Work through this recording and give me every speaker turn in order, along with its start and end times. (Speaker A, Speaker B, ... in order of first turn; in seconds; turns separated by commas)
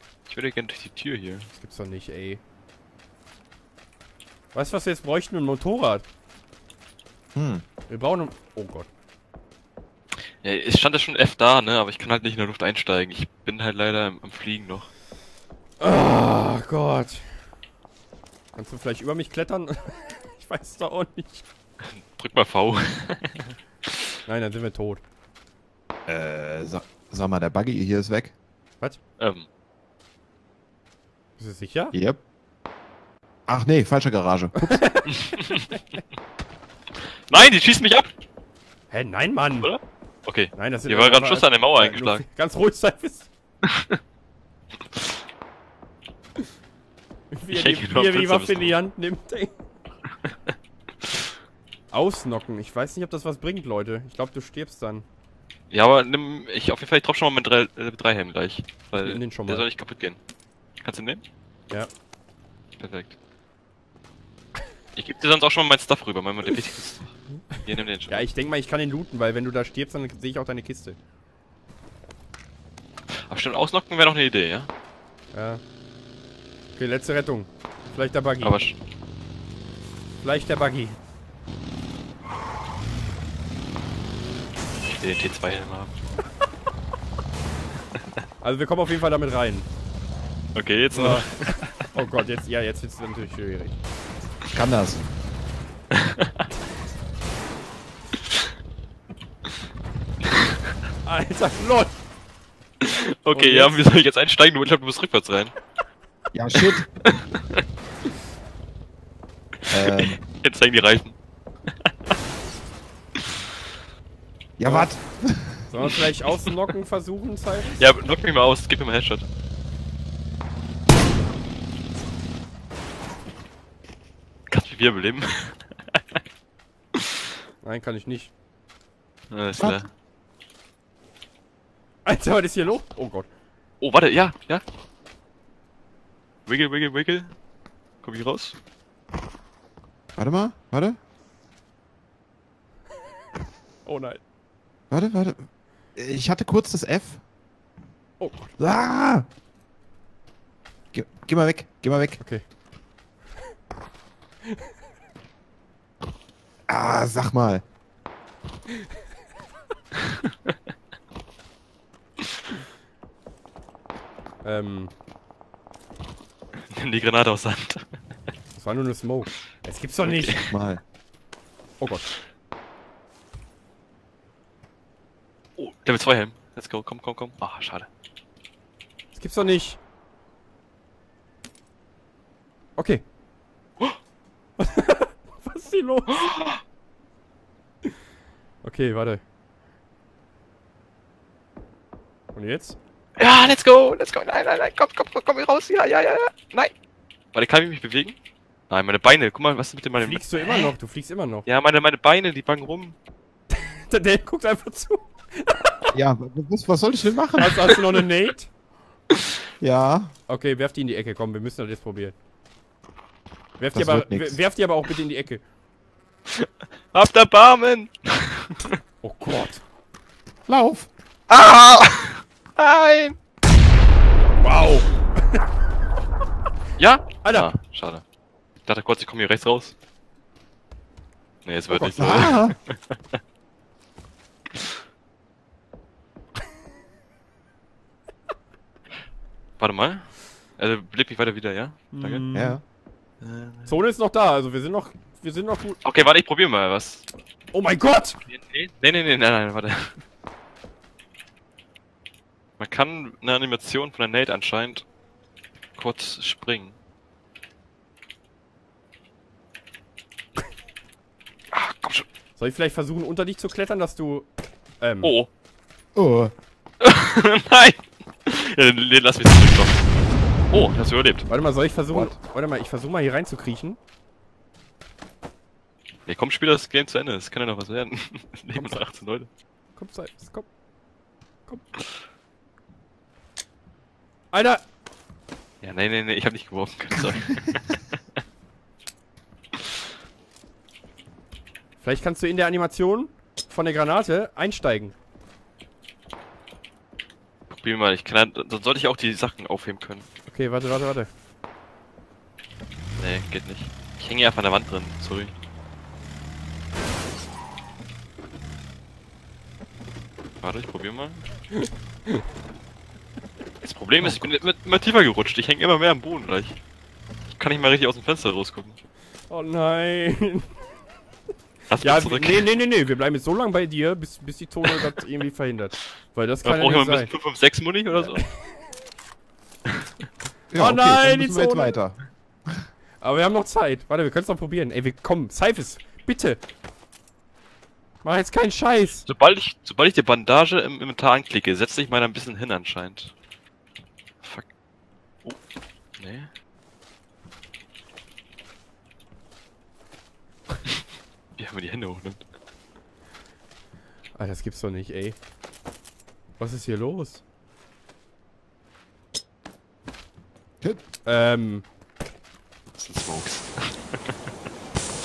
Speaker A: 0.3-1.5, Speaker B: 1.5-2.4, Speaker B: 4.5-6.0, Speaker C: 7.3-7.6, Speaker B: 7.9-8.9, Speaker A: 10.4-14.9, Speaker B: 15.8-17.5, Speaker B: 18.5-21.4, Speaker A: 21.8-24.0, Speaker B: 24.2-25.0, Speaker C: 26.1-28.3, Speaker A: 29.2-29.5, Speaker B: 31.4-31.9, Speaker C: 31.9-32.2, Speaker C: 33.5-34.8, Speaker B: 34.5-35.1, Speaker A: 35.1-35.7, Speaker A: 37.3-38.1, Speaker B: 38.9-39.7, Speaker A: 39.6-42.2, Speaker B: 40.5-43.3, Speaker A: 43.6-44.0, Speaker B: 47.3-49.6, Speaker A: 47.5-48.8, Speaker B: 51.9-55.0, Speaker A: 55.7-60.2, Speaker B: 59.0-59.7, Speaker A: 60.8-61.2, Speaker A: 62.8-63.1, Speaker A: 65.0-68.3, Speaker B: 68.1-71.0, Speaker A: 73.1-74.7, Speaker B: 75.3-75.6, Speaker B: 76.8-78.6, Speaker A: 78.4-78.8, Speaker B: 80.2-81.0, Speaker A: 84.8-85.9, Speaker B: 88.4-89.7, Speaker A: 90.5-91.8, Speaker B: 90.9-93.8, Speaker C: 94.5-95.1, Speaker A: 95.9-96.4, Speaker B: 101.0-101.9, Speaker A: 102.8-105.5, Speaker B: 103.3-103.8, Speaker C: 106.3-106.9, Speaker A: 106.5-107.6, Speaker A: 109.6-111.2, Speaker C: 109.7-110.2, Speaker A: 111.7-112.1, Speaker C: 114.6-115.7, Speaker B: 114.6-114.9, Speaker B: 115.7-117.8, Speaker A: 116.2-116.5, Speaker A: 117.8-119.2, Speaker A: 124.5-126.0, Speaker B: 127.6-128.3, Speaker A: 129.3-129.9, Speaker B: 132.0-133.3, Speaker A: 133.8-134.6, Speaker A: 136.4-137.3, Speaker A: 138.0-138.6, Speaker C: 140.2-141.0, Speaker B: 143.8-144.2, Speaker C: 144.9-147.2, Speaker B: 148.2-148.6, Speaker C: 148.6-149.3, Speaker C: 150.9-152.2, Speaker B: 152.2-152.4, Speaker C: 156.7-157.6, Speaker B: 164.4-164.9, Speaker A: 166.7-168.0, Speaker B: 168.6-170.3, Speaker A: 170.0-170.5, Speaker C: 170.5-170.8, Speaker B: 171.8-172.1, Speaker A: 175.6-177.9, Speaker B: 179.1-179.8, Speaker B: 182.8-183.0, Speaker B: 184.6-186.3, Speaker A: 186.1-186.6, Speaker B: 188.6-189.2, Speaker B: 192.3-192.8, Speaker A: 193.2-196.7, Speaker A: 197.3-198.2, Speaker A: 198.7-200.7, Speaker B: 200.0-201.4, Speaker A: 201.4-202.9, Speaker B: 203.5-205.9, Speaker C: 205.9-207.7, Speaker B: 207.3-208.5, Speaker C: 209.6-210.1, Speaker B: 210.3-212.1, Speaker B: 213.6-215.4, Speaker C: 213.7-214.4, Speaker A: 216.3-218.8, Speaker B: 219.0-219.6, Speaker C: 220.5-220.9, Speaker A: 221.3-223.1, Speaker B: 224.4-225.4, Speaker A: 226.8-228.0, Speaker B: 227.2-227.5, Speaker A: 228.6-229.7, Speaker A: 231.4-233.2, Speaker B: 231.7-232.3, Speaker C: 232.0-232.6, Speaker A: 239.6-242.2, Speaker B: 241.9-242.6, Speaker C: 242.3-242.6, Speaker A: 243.2-243.7, Speaker B: 243.7-245.8, Speaker A: 245.8-247.1, Speaker B: 247.5-248.2, Speaker A: 248.3-250.0, Speaker A: 252.6-254.8, Speaker A: 255.8-256.8, Speaker A: 261.5-262.1, Speaker B: 262.4-264.3, Speaker B: 264.8-265.1, Speaker A: 265.0-265.3, Speaker C: 265.9-266.3, Speaker A: 266.8-269.9, Speaker A: 270.5-271.3, Speaker B: 271.3-273.8, Speaker C: 271.9-272.1, Speaker A: 276.1-279.3, Speaker B: 278.5-278.8, Speaker B: 279.8-280.5, Speaker B: 284.3-284.6, Speaker A: 285.6-288.0, Speaker B: 291.8-294.9, Speaker A: 297.5-300.1, Speaker B: 300.3-301.1, Speaker A: 303.0-305.3, Speaker A: 310.4-311.2, Speaker B: 311.5-312.2, Speaker A: 313.6-316.6, Speaker A: 317.4-318.8, Speaker B: 319.3-320.5, Speaker A: 321.7-322.5, Speaker B: 321.8-327.1, Speaker A: 326.4-328.2, Speaker B: 327.9-328.5, Speaker A: 329.6-330.1, Speaker C: 330.5-332.6, Speaker B: 330.6-331.8, Speaker B: 333.0-336.4, Speaker B: 338.0-339.1, Speaker A: 339.1-343.1, Speaker A: 344.2-344.5, Speaker A: 346.0-346.3, Speaker A: 351.4-352.2, Speaker B: 354.1-355.2, Speaker B: 356.4-357.2, Speaker B: 361.0-361.6, Speaker A: 362.8-364.2